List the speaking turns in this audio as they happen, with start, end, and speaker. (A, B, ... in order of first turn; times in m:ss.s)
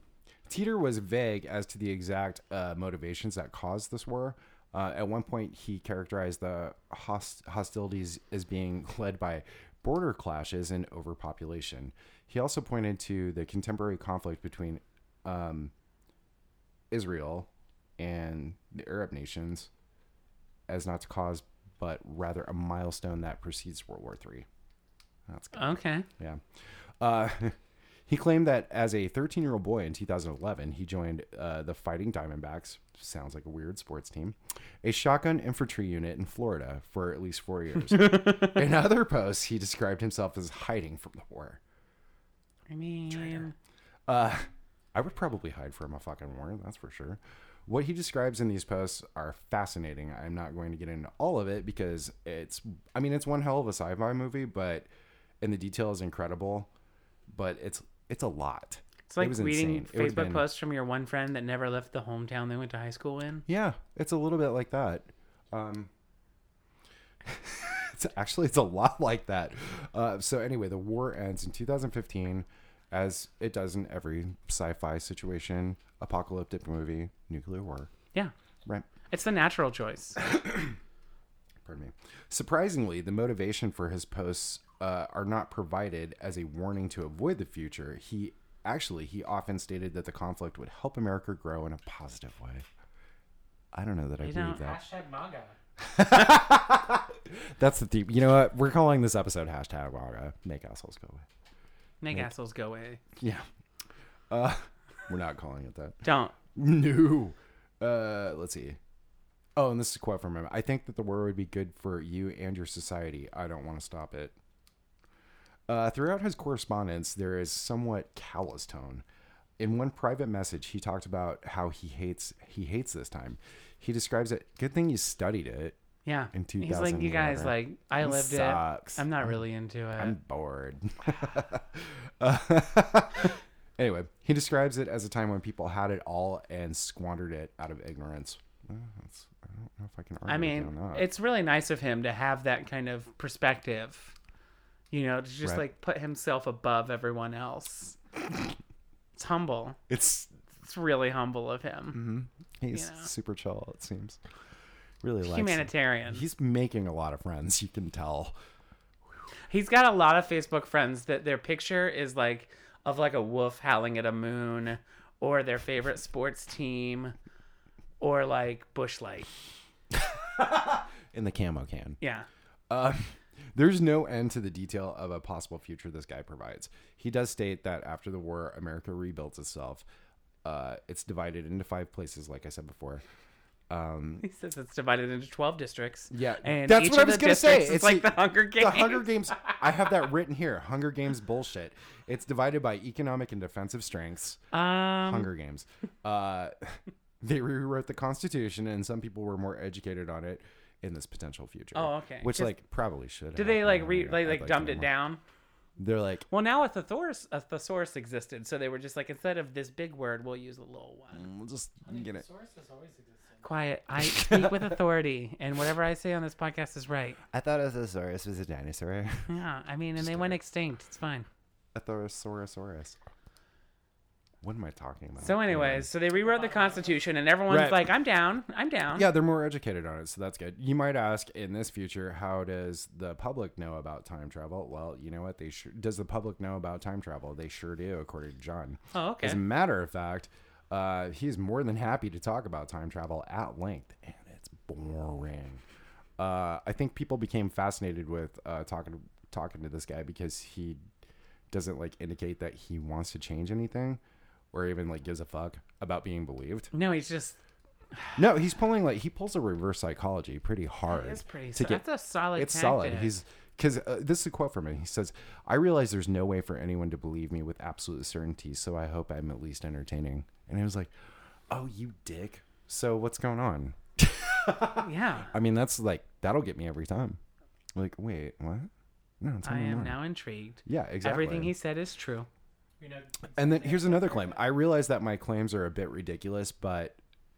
0:00.5-0:15.7 A
0:16.9-0:19.7 A
0:20.7-0:24.4 A
0:25.3-0:26.4 A
0:25.5-0:26.1 B
0:27.0-0:27.6 A
0:28.1-0:41.6 A
0:42.7-0:43.5 B
0:44.1-0:54.9 A
0:55.4-0:56.7 A
0:57.3-1:00.5 A
0:59.1-1:03.4 B
1:03.5-1:05.9 A
1:07.2-1:17.9 A
1:19.1-1:20.2 B
1:20.2-1:20.8 A
1:21.6-1:32.6 A
1:33.7-1:34.8 A
1:34.2-1:34.6 B
1:34.6-1:35.6 C
1:35.8-1:41.2 A
1:42.0-1:43.0 B
1:43.2-1:43.4 A
1:44.3-1:48.8 A
1:46.0-1:46.4 B
1:49.6-1:54.4 A
1:55.7-1:59.0 A
1:59.6-2:05.8 A
2:06.0-2:10.2 B
2:06.3-2:09.4 A
2:10.0-2:21.1 A
2:20.3-2:24.1 B
2:24.9-2:28.0 B
2:25.4-2:25.7 A
2:29.1-2:29.8 B
2:29.9-2:30.3 A
2:30.5-2:32.0 B
2:31.9-2:34.2 A
2:32.7-2:33.1 B
2:35.0-2:38.4 A
2:35.2-2:36.2 B
2:39.5-2:47.1 B
2:48.0-2:49.3 B
2:49.9-2:52.0 A
2:52.0-2:52.3 B
2:52.7-2:59.8 A
3:00.4-3:03.0 A
3:03.7-3:04.2 A
3:04.2-3:09.1 B
3:06.1-3:14.4 A
3:14.5-3:15.3 B
3:15.0-3:24.9 A
3:21.7-3:22.5 B
3:23.4-3:25.2 B
3:25.8-3:26.3 A
3:26.3-3:31.3 B
3:31.1-3:32.2 A
3:31.9-3:33.5 C
3:33.4-3:37.2 B
3:34.0-3:34.8 A
3:37.3-3:39.3 A
3:39.3-3:41.3 B
3:40.0-3:40.4 A
3:41.7-3:43.0 A
3:44.4-3:45.9 A
3:45.2-3:49.1 B
3:46.1-3:47.1 C
3:47.5-3:47.9 A
3:48.9-4:05.6 A
3:58.9-3:59.4 B
4:06.2-4:10.8 A
4:11.5-4:14.0 A
4:14.5-4:16.7 A
4:16.7-4:17.4 B
4:18.2-4:21.8 A
4:20.9-4:23.2 B
4:22.4-4:30.9 A
4:31.5-4:37.2 A
4:34.8-4:35.3 B
4:37.8-4:38.7 A
4:39.2-4:40.0 A
4:39.4-4:42.3 B
4:40.6-4:41.5 A
4:42.8-4:44.5 C
4:43.4-4:47.0 A